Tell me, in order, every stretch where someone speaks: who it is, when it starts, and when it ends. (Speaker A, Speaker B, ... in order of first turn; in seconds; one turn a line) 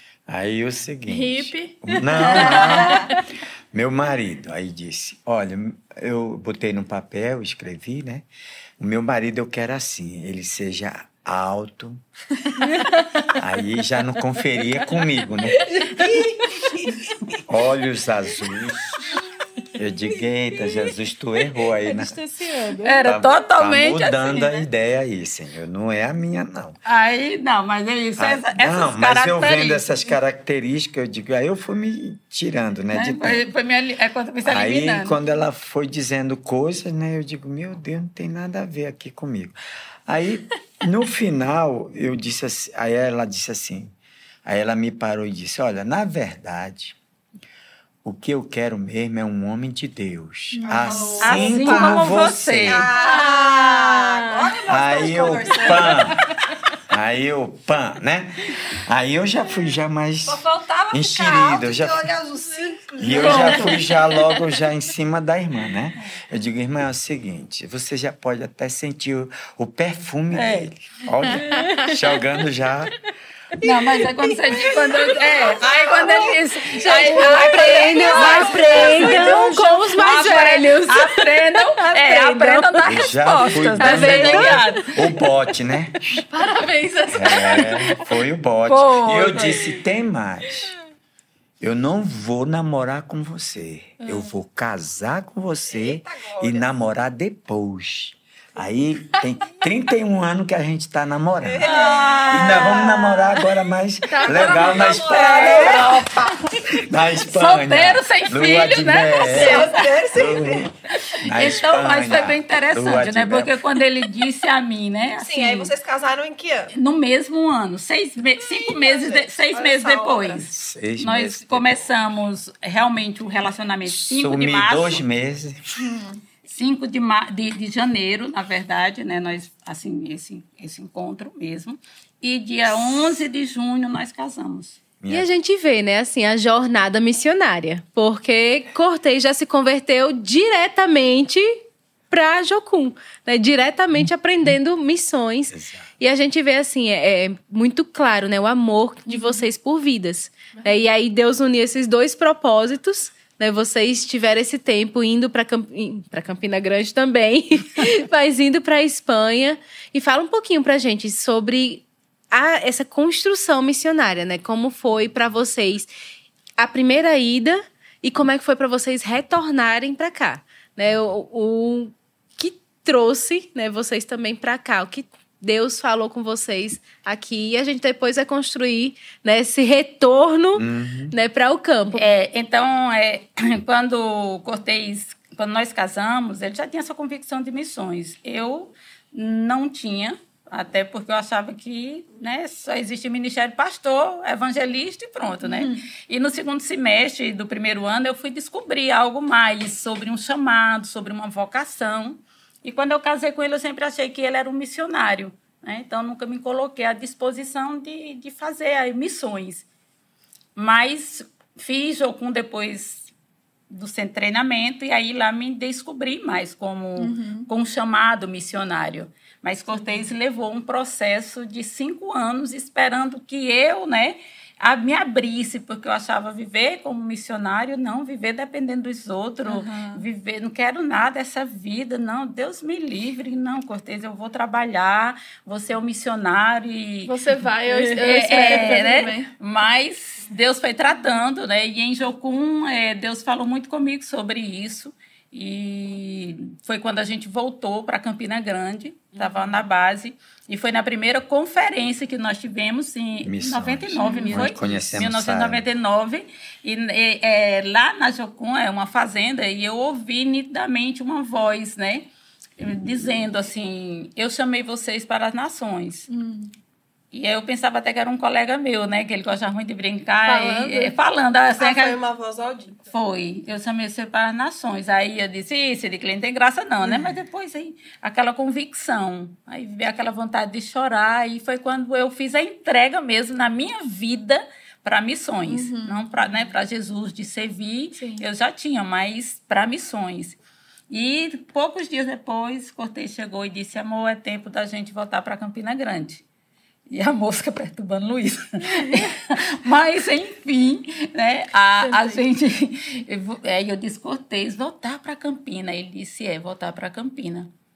Speaker A: 0.3-3.2
Speaker B: 1.1-3.0
Speaker C: 2.3-3.1
Speaker A: 3.7-8.3
Speaker A: 8.8-12.0
Speaker A: 13.3-15.8
Speaker D: 15.7-16.9
Speaker A: 17.5-18.9
Speaker D: 19.6-20.9
Speaker A: 19.8-22.2
Speaker D: 21.5-23.1
Speaker C: 22.8-24.7
Speaker A: 23.1-26.8
Speaker C: 26.9-30.1
Speaker A: 28.2-33.4
Speaker C: 32.9-35.2
Speaker A: 34.4-39.5
Speaker A: 40.1-43.9
Speaker A: 44.5-47.0
Speaker A: 48.0-52.9
Speaker B: 50.5-51.1
Speaker E: 50.7-56.1
Speaker C: 51.2-54.2
Speaker A: 54.7-56.2
Speaker C: 55.4-56.0
Speaker A: 56.9-62.1
Speaker E: 60.3-63.6
Speaker B: 62.4-63.7
Speaker A: 63.0-73.0
Speaker C: 63.1-63.9
Speaker C: 70.3-70.7
Speaker D: 71.6-72.0
Speaker E: 73.6-77.2
Speaker C: 73.6-85.1
Speaker B: 75.7-80.1
Speaker D: 77.0-81.3
Speaker E: 78.3-78.7
Speaker B: 81.8-83.2
Speaker A: 82.8-86.2
Speaker D: 83.8-84.8
Speaker B: 83.9-84.2
Speaker B: 86.3-87.8
Speaker A: 87.1-90.7
Speaker C: 88.7-89.7
Speaker A: 91.6-106.0
Speaker B: 94.0-94.3
Speaker E: 95.7-96.7
Speaker E: 101.4-103.3
Speaker C: 101.6-103.4
Speaker B: 104.1-105.9
Speaker E: 104.3-106.3
Speaker C: 105.1-106.1
Speaker A: 106.7-113.6
Speaker C: 107.3-109.9
Speaker E: 109.2-110.7
Speaker C: 111.1-115.7
Speaker E: 115.2-116.7
Speaker C: 116.7-125.0
Speaker E: 118.4-120.5
Speaker A: 120.5-122.2
Speaker A: 123.8-126.0
Speaker B: 125.8-126.1
Speaker C: 126.5-134.8
Speaker A: 135.0-135.3
Speaker D: 135.1-141.5
Speaker D: 142.1-165.9
Speaker A: 145.5-145.9
Speaker B: 149.1-149.4
Speaker D: 166.6-182.1
Speaker A: 180.6-181.1
Speaker C: 181.9-209.7
Speaker B: 195.4-195.8
Speaker C: 210.6-213.1
Speaker C: 213.7-266.1
Speaker B: 217.0-217.5
Speaker B: 219.7-220.1
Speaker B: 229.5-230.0
Speaker B: 237.1-239.3
Speaker A: 253.2-255.6
Speaker B: 254.0-254.8
Speaker B: 266.1-266.5
Speaker C: 267.1-272.0
Speaker B: 270.2-271.0
Speaker E: 271.6-272.9
Speaker C: 272.9-290.4
Speaker B: 285.5-286.5
Speaker B: 288.0-288.2
Speaker C: 290.9-296.2
Speaker C: 296.9-307.5
Speaker B: 301.8-302.2